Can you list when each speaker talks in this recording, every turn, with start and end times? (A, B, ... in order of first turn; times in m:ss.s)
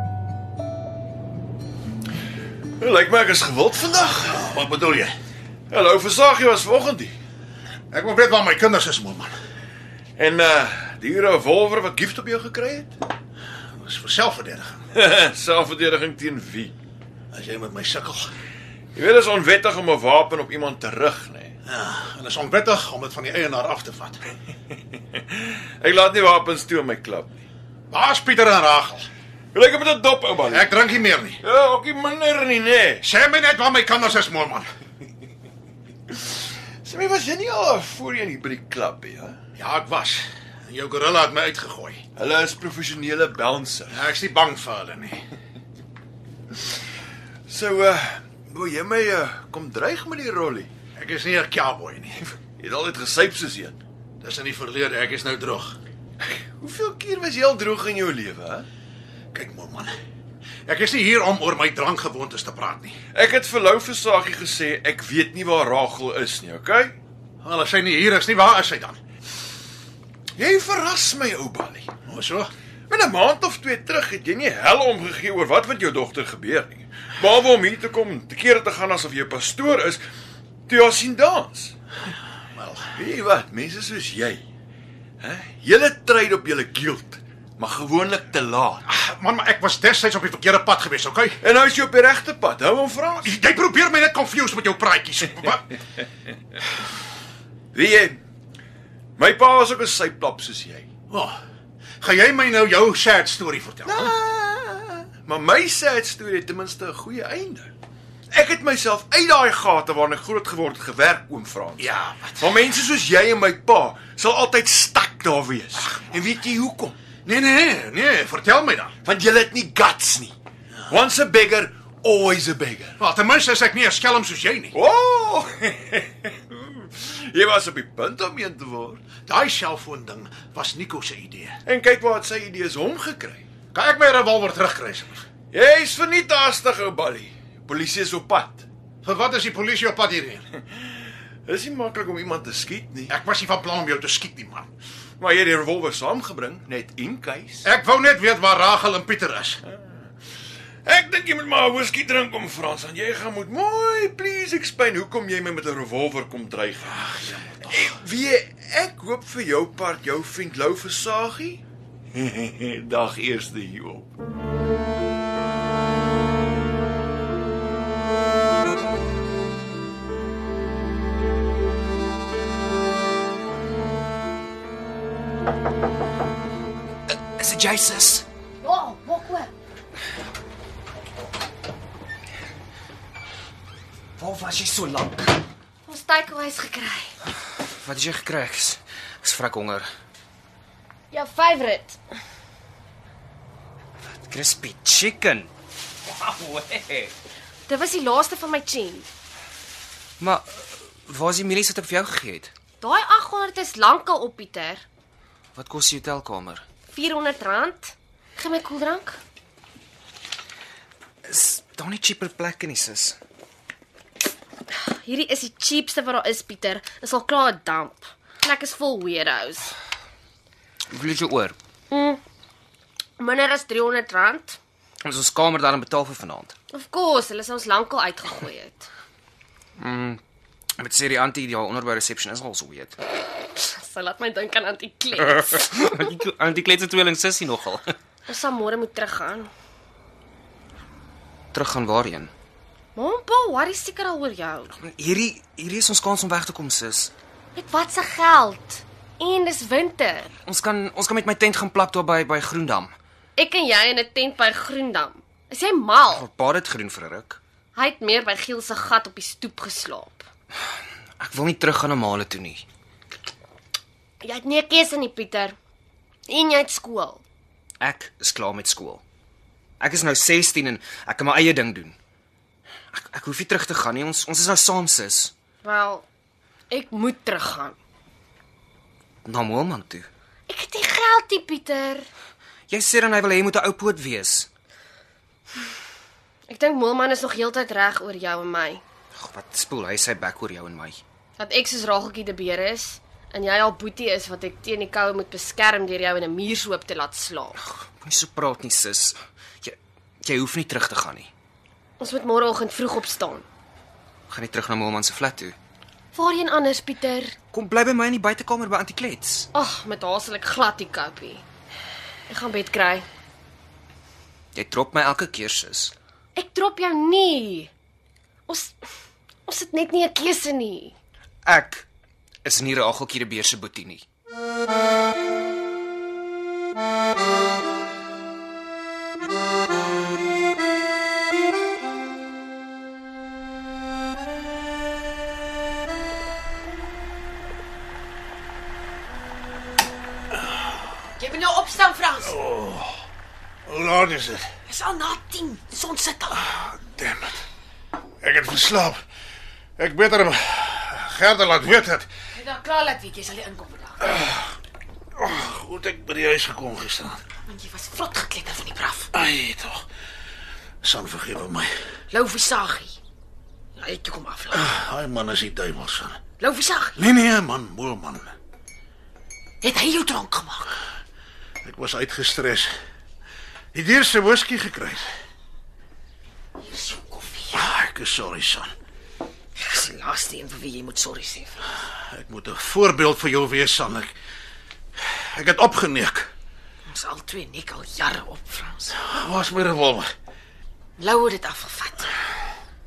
0:02.8-0:04.5 A
0:04.5-0:05.1 B
0:05.7-0:07.1 A
0:07.9-0:09.3 B
0:10.2-0:12.9 A
0:13.7-0:14.8 B
0:14.9-0:16.7 A
0:17.3-0:18.3 B
0:18.9-0:21.5 A
0:21.6-0:24.2 B
0:25.1-0:27.4 A
0:27.9-0:29.0 B
0:29.5-0:30.7 A
0:30.5-0:31.4 B
0:31.4-0:33.0 A
0:33.0-0:34.7 B
0:36.1-0:39.4 A
0:39.6-0:42.0 B
0:42.2-0:44.2 A
0:43.9-0:45.2 B
0:47.5-0:50.7 A
0:51.0-0:52.2 B
0:52.6-0:53.8 A
0:54.2-0:55.8 B
0:56.2-0:58.7 A
0:59.3-0:59.9 B
1:00.6-1:02.9 B
1:03.1-1:06.9 A
1:07.4-1:09.0 B
1:10.4-1:11.9 A
1:12.0-1:12.5 B
1:12.9-1:20.0 A
1:20.7-1:21.7 A
1:22.5-1:22.8 B
1:22.9-1:24.4 A
1:25.2-1:28.8 A
1:28.8-1:31.3 B
1:31.4-1:33.3 A
1:33.3-1:35.6 B
1:37.7-1:38.2 A
1:39.2-1:40.9 A
1:42.0-1:43.9 B
1:43.8-1:47.7 A
1:48.3-1:57.0 A
1:51.8-1:52.3 B
1:57.2-1:58.9 B
1:59.0-2:00.3 A
2:00.9-2:03.0 A
2:03.0-2:04.7 B
2:04.7-2:09.0 A
2:09.3-2:11.5 B
2:11.6-2:13.4 A
2:13.7-2:15.2 B
2:15.5-2:18.6 A
2:19.0-2:20.4 B
2:21.4-2:23.1 A
2:23.1-2:24.7 B
2:25.2-2:27.7 A
2:27.6-2:29.6 B
2:30.8-2:41.6 A
2:37.1-2:37.6 B
2:42.1-2:44.1 A
2:57.4-2:58.2 C
2:58.6-2:59.5 D
3:04.2-3:05.4 C
3:05.8-3:07.2 D
3:07.6-3:09.9 C
3:11.1-3:12.0 D
3:14.1-3:15.5 C
3:16.0-3:17.1 C
3:17.7-3:19.1 D
3:20.2-3:22.5 C
3:22.8-3:24.8 D
3:25.5-3:26.6 C
3:26.9-3:29.2 D
3:31.2-3:33.2 C
3:34.7-3:39.7 D
3:40.9-3:41.6 C
3:41.9-3:42.2 D
3:43.2-3:44.6 D
3:45.0-3:46.5 C
3:46.7-3:48.9 D
3:49.8-3:50.2 C
3:50.8-3:53.0 C
3:53.4-3:55.7 D
3:55.2-3:57.9 C
3:58.3-3:59.5 D
4:01.5-4:02.3 C
4:03.0-4:04.7 D
4:04.8-4:07.1 C
4:07.5-4:10.3 D
4:10.4-4:12.9 C
4:13.4-4:16.2 D
4:16.1-4:17.4 C
4:17.7-4:20.2 D
4:21.2-4:22.6 C
4:24.2-4:25.6 D
4:26.3-4:27.2 D
4:27.8-4:29.0 C
4:29.8-4:32.0 C
4:32.9-4:35.3 C
4:35.6-4:36.0 D
4:36.7-4:37.8 D
4:39.2-4:40.1 C
4:40.5-4:42.0 D
4:42.7-4:44.5 C
4:46.5-4:48.8 D
4:49.2-4:51.0 C
4:51.4-4:57.6 D
4:57.7-5:01.3 C
5:02.0-5:03.4 D
5:04.3-5:05.6 C
5:06.1-5:07.4 D
5:07.5-5:09.5 C
5:09.5-5:11.4 D
5:12.3-5:13.0 D
5:14.5-5:15.9 C
5:16.3-5:17.7 D
5:18.5-5:18.8 D
5:19.5-5:21.0 D
5:21.4-5:21.9 C
5:22.4-5:24.0 C
5:41.2-5:42.4 E
5:42.5-5:42.9 B
5:43.6-5:44.4 B
5:44.6-5:46.4 E
5:46.4-5:47.4 B
5:48.2-5:49.0 B
5:49.8-5:52.1 B
5:52.3-5:54.2 E
5:55.2-5:57.2 B
5:57.4-5:59.2 E
5:59.1-5:59.8 B
6:00.8-6:01.7 B
6:02.1-6:03.0 E
6:03.8-6:04.8 E
6:04.8-6:06.2 B
6:06.4-6:07.1 E
6:07.0-6:08.3 B
6:09.6-6:10.8 E
6:11.6-6:12.7 B
6:13.7-6:15.0 B
6:16.6-6:17.7 E
6:17.6-6:18.7 B
6:19.6-6:21.8 E
6:22.1-6:24.1 B
6:25.0-6:26.3 B
6:26.9-6:29.2 E
6:29.2-6:30.1 B
6:31.0-6:32.2 E